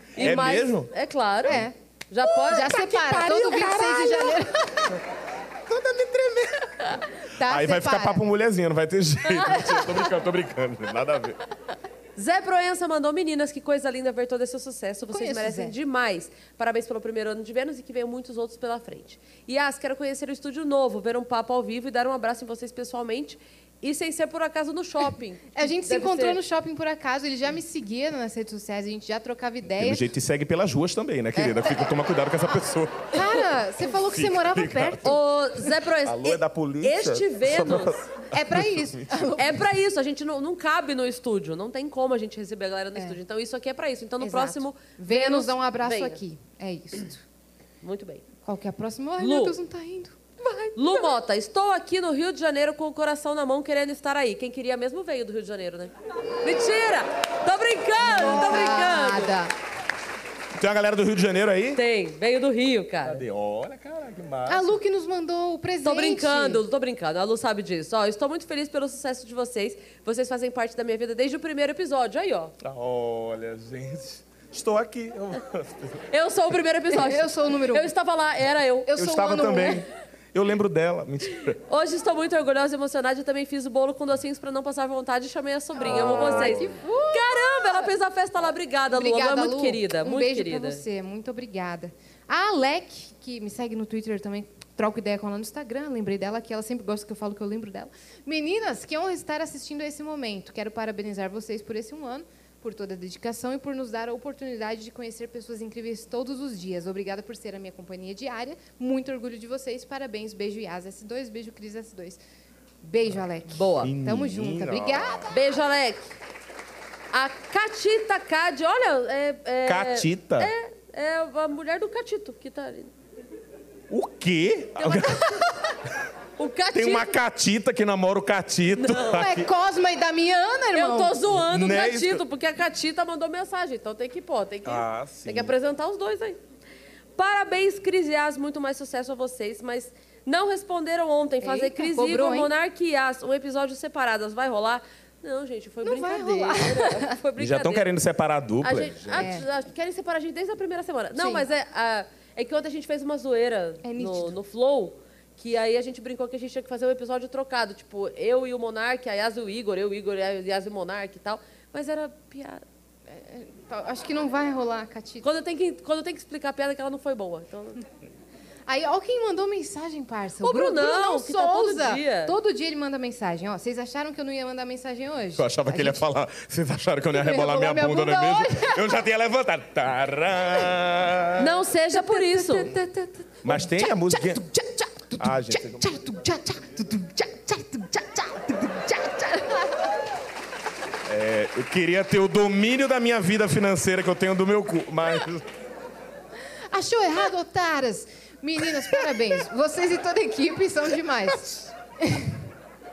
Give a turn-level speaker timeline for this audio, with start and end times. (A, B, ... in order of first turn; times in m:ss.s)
0:00.2-0:01.6 A
0:00.2-0:00.9 B
0:01.4-0:01.7 C
0:02.1-0:04.1 A
0:02.5-0:04.9 C
0:03.4-0:04.3 B
0:05.7-0:06.9 B
0:07.4-0:08.2 C
0:07.4-0:11.4 B
0:12.2-0:26.4 A
0:15.1-0:15.7 C
0:25.6-0:30.0 C
0:29.8-0:33.2 B
0:33.1-0:35.2 C
0:34.0-0:35.2 B
0:35.0-0:38.0 A
0:36.0-0:39.3 B
0:38.3-0:39.6 C
0:39.4-0:46.2 A
0:44.2-0:47.2 C
0:47.8-0:48.2 A
0:48.4-0:51.1 C
0:49.2-0:49.6 A
0:50.7-0:59.4 A
0:58.0-0:59.5 C
1:00.6-1:01.8 B
1:01.7-1:03.2 A
1:03.0-1:04.8 B
1:04.4-1:06.6 C
1:05.8-1:12.5 A
1:12.6-1:16.0 B
1:16.1-1:18.9 A
1:16.9-1:17.9 C
1:18.9-1:19.8 C
1:19.0-1:21.6 B
1:21.7-1:30.8 A
1:25.8-1:27.9 C
1:25.8-1:26.7 B
1:28.9-1:52.2 C
1:52.8-1:55.4 C
1:53.5-1:53.9 A
1:53.8-1:55.3 B
1:55.3-1:56.1 A
1:57.1-2:02.9 A
1:59.6-2:00.5 B
2:03.9-2:05.4 B
2:04.8-2:05.3 A
2:06.4-2:07.2 A
2:06.7-2:09.5 B
2:08.7-2:09.2 A
2:09.1-2:11.2 C
2:10.7-2:16.4 A
2:11.3-2:12.2 B
2:14.6-2:15.5 B
2:17.2-2:27.9 A
2:21.4-2:22.5 C
2:25.8-2:27.1 C
2:27.4-2:29.3 B
2:28.6-2:42.6 A
2:29.1-2:29.4 C
2:31.2-2:31.4 C
2:33.8-2:34.4 C
2:43.1-2:45.2 C
2:45.2-2:47.8 A
2:48.7-2:56.0 C
2:50.4-2:52.4 A
2:55.4-3:01.5 B
2:57.1-2:59.0 C
3:01.4-3:02.7 A
3:01.9-3:09.9 C
3:03.4-3:04.4 B
3:05.2-3:05.9 B
3:11.1-3:15.4 B
3:16.7-3:22.4 C